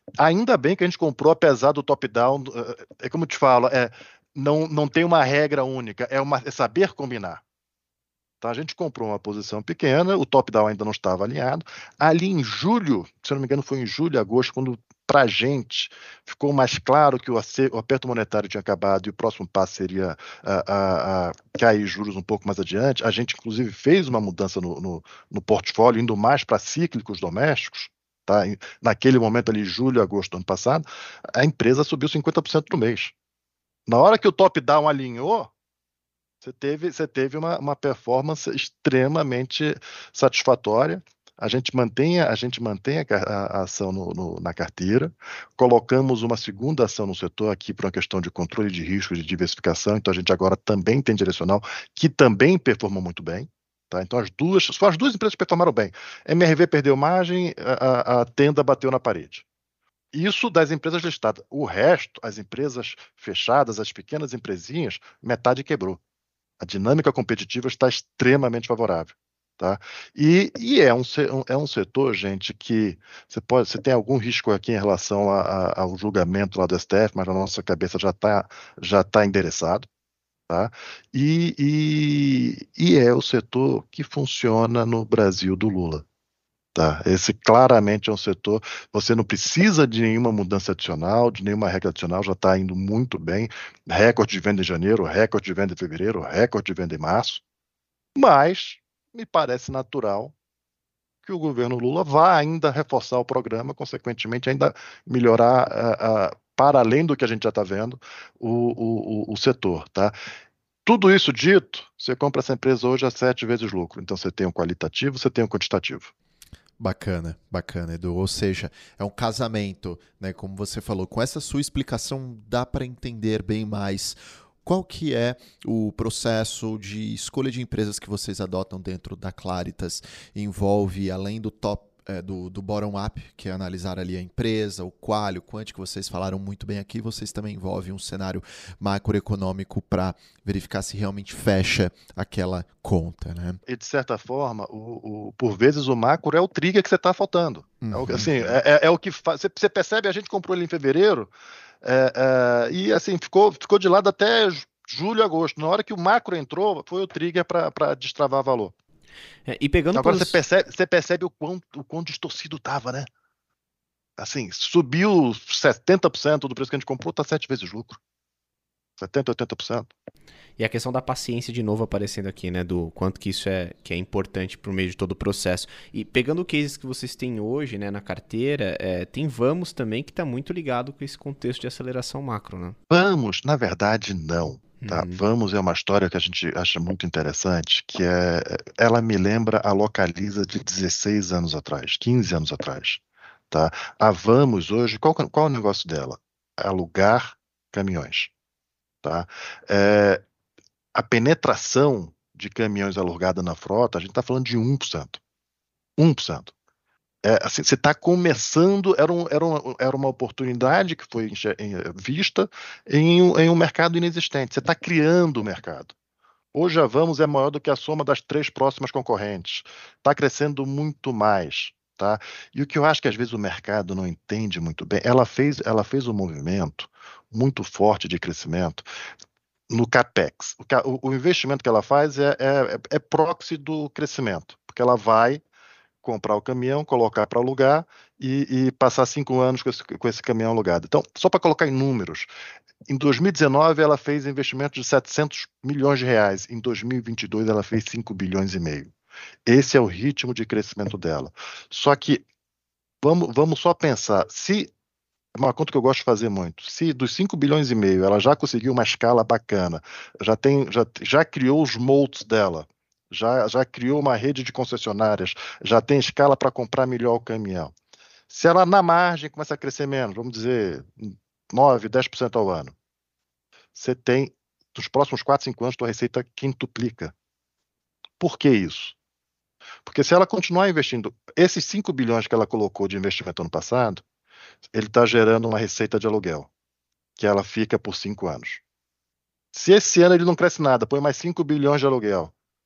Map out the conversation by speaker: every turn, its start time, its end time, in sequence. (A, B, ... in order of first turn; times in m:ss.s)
0:00.2-0:07.4 A
0:08.4-0:33.1 A
0:33.9-0:35.5 A
0:36.4-0:59.4 A
1:00.1-1:06.0 A
1:06.6-1:19.9 A
1:20.5-1:26.0 A
1:26.8-1:37.4 A
1:38.2-1:40.3 A
1:41.2-1:50.1 A
1:50.9-1:56.1 A
1:56.8-2:23.6 B
2:23.7-2:31.3 A
2:27.8-2:28.6 B
2:31.8-2:38.7 A
2:39.5-2:40.4 C
2:40.0-2:43.1 A
2:44.2-2:48.0 A
2:49.0-2:49.9 A
2:50.6-3:02.8 C
3:02.9-3:18.3 A
3:04.8-3:05.2 C
3:19.0-3:20.2 A
3:21.0-3:25.2 A
3:26.0-3:26.5 A
3:27.2-3:35.9 A
3:36.5-3:48.9 A
3:49.7-3:55.4 A
3:56.0-4:02.3 A
4:02.9-4:08.9 A
4:09.5-4:12.2 A
4:13.0-4:14.7 A
4:15.4-4:27.7 A
4:28.3-4:32.7 A
4:33.8-4:37.1 A
4:38.2-4:39.0 A
4:39.9-4:44.0 A
4:44.7-4:46.5 A
4:47.2-4:48.6 A
4:49.5-4:52.3 A